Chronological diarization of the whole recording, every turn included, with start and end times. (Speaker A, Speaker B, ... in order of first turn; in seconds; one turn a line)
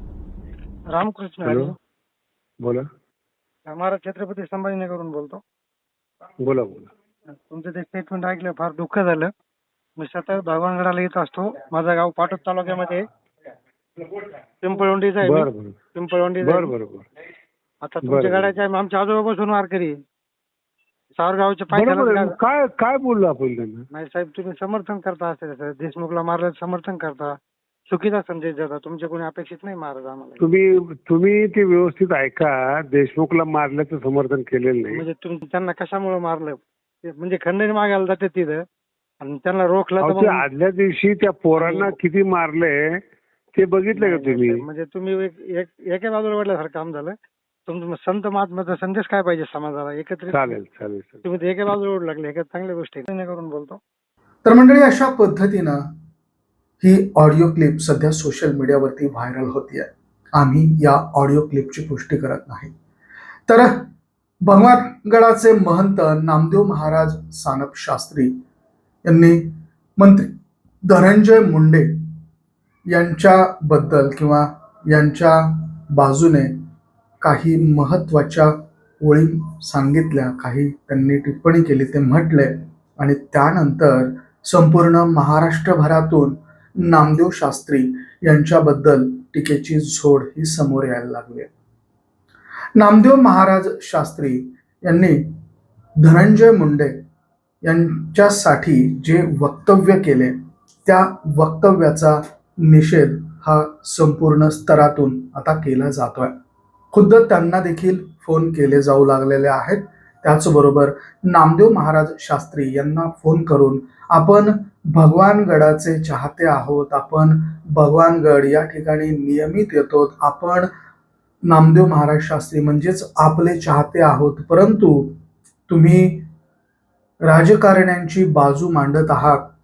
Speaker A: 0.9-1.8
Speaker B: 1.4-1.7
Speaker A: 3.7-5.4
Speaker B: 6.4-6.9
Speaker A: 7.4-9.3
Speaker A: 10.0-13.1
Speaker A: 14.6-16.7
Speaker B: 15.2-15.8
Speaker B: 16.4-17.1
Speaker A: 17.8-20.0
Speaker B: 18.0-18.6
Speaker A: 21.2-22.4
Speaker B: 21.7-23.9
Speaker A: 23.9-27.3
Speaker A: 27.9-30.4
Speaker B: 30.4-35.0
Speaker A: 34.9-38.6
Speaker A: 39.2-40.4
Speaker B: 40.0-44.6
Speaker A: 41.5-42.0
Speaker A: 43.9-47.1
Speaker A: 47.7-50.6
Speaker B: 50.3-51.2
Speaker A: 51.2-53.8
Speaker C: 54.4-55.9
Speaker C: 56.8-62.7
Speaker C: 63.5-63.9
Speaker C: 64.4-68.3
Speaker C: 69.0-70.3
Speaker C: 70.8-72.0
Speaker C: 72.9-76.5
Speaker C: 77.2-91.5
Speaker C: 92.8-95.3
Speaker C: 96.0-97.0
Speaker C: 97.6-106.3
Speaker C: 106.9-120.7
Speaker C: 121.5-125.2
Speaker C: 125.7-126.3
Speaker C: 127.3-129.4